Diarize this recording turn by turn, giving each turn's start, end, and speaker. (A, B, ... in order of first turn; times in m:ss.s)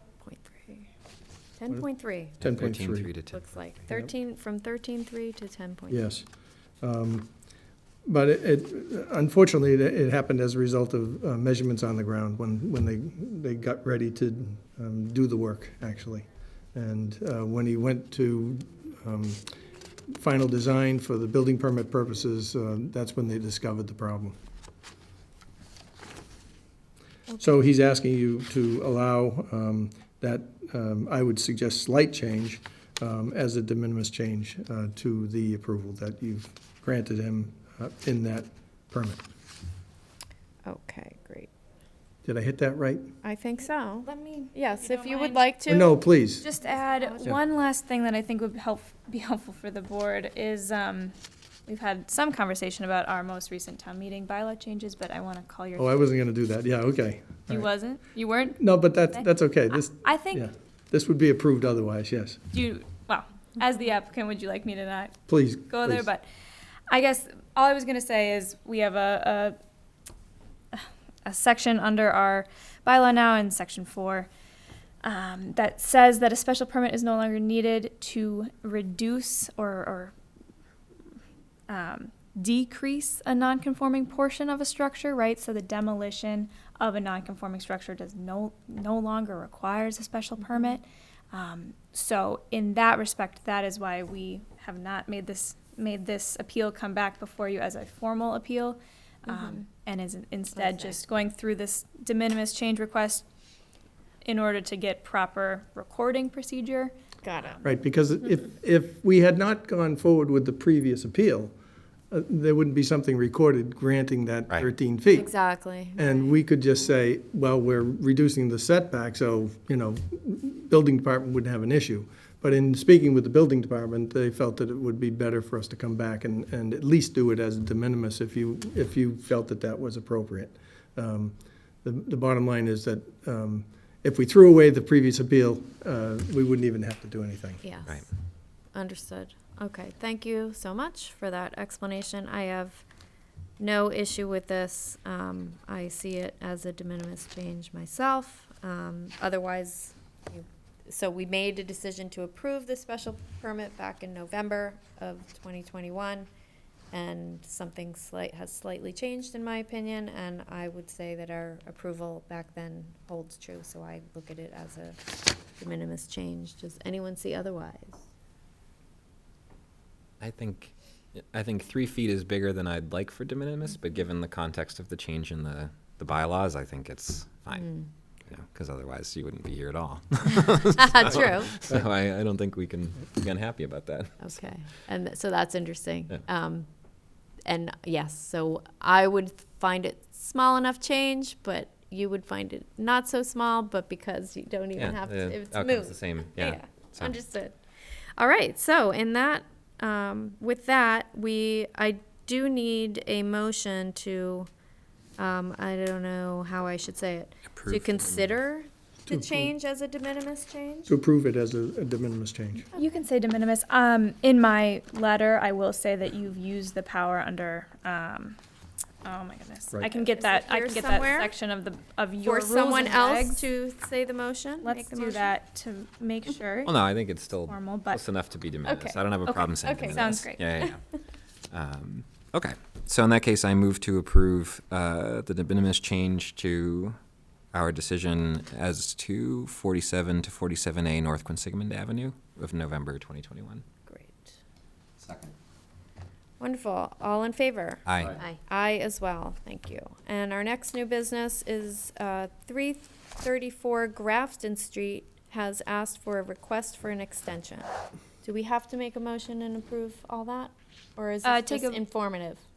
0:00.2-0:00.9 A
0:01.6-0:02.4 A
0:02.4-0:03.1 B
0:02.4-0:03.4 C
0:03.3-0:06.0 A
0:05.9-0:06.3 B
0:06.8-0:07.3 B
0:08.1-0:19.5 B
0:20.1-0:24.4 B
0:27.4-0:39.2 B
0:40.6-0:41.5 A
0:42.2-0:43.2 B
0:43.2-0:46.0 A
0:44.1-0:45.5 D
0:45.7-0:46.5 B
0:46.4-0:51.1 D
0:46.6-0:47.3 A
0:51.7-0:56.0 D
0:55.8-0:57.7 B
0:57.5-0:58.6 D
0:58.6-1:02.4 B
1:00.0-1:00.4 D
1:02.5-1:06.2 D
1:05.3-1:06.1 B
1:06.9-1:09.6 D
1:10.7-1:14.3 D
1:15.0-1:20.1 D
1:21.7-1:43.2 D
1:39.3-1:39.6 A
1:40.6-1:41.0 A
1:44.2-1:47.6 D
1:47.2-1:47.6 A
1:47.6-1:51.5 B
1:52.1-1:55.3 B
1:55.1-1:56.1 A
1:56.0-2:17.6 B
2:17.6-2:18.1 A
2:18.7-2:22.8 A
2:23.6-2:36.3 A
2:36.9-2:45.0 A
2:45.6-2:48.0 A
2:50.2-2:57.7 C
2:57.6-2:57.9 A
2:58.3-3:04.2 C
3:00.8-3:01.6 A
3:04.2-3:06.7 A
3:07.4-3:17.6 A
3:14.8-3:17.1 C
3:18.2-3:24.5 A
3:25.2-3:30.9 A
3:27.5-3:28.3 C
3:29.1-3:29.5 B
3:30.9-3:32.7 B
3:32.8-3:38.4 D
3:39.0-3:43.4 D
3:39.7-3:40.0 B
3:40.1-3:41.3 A
3:42.2-3:45.3 A
3:44.6-3:46.9 D
3:46.6-3:50.8 C
3:47.4-3:48.0 D
3:48.6-3:50.7 A
3:49.3-3:50.4 D
3:51.5-3:57.0 C
3:57.5-4:03.6 C
4:03.9-4:04.4 A
4:06.4-4:17.7 A
4:07.9-4:08.2 C
4:18.2-4:22.4 A
4:21.2-4:21.8 D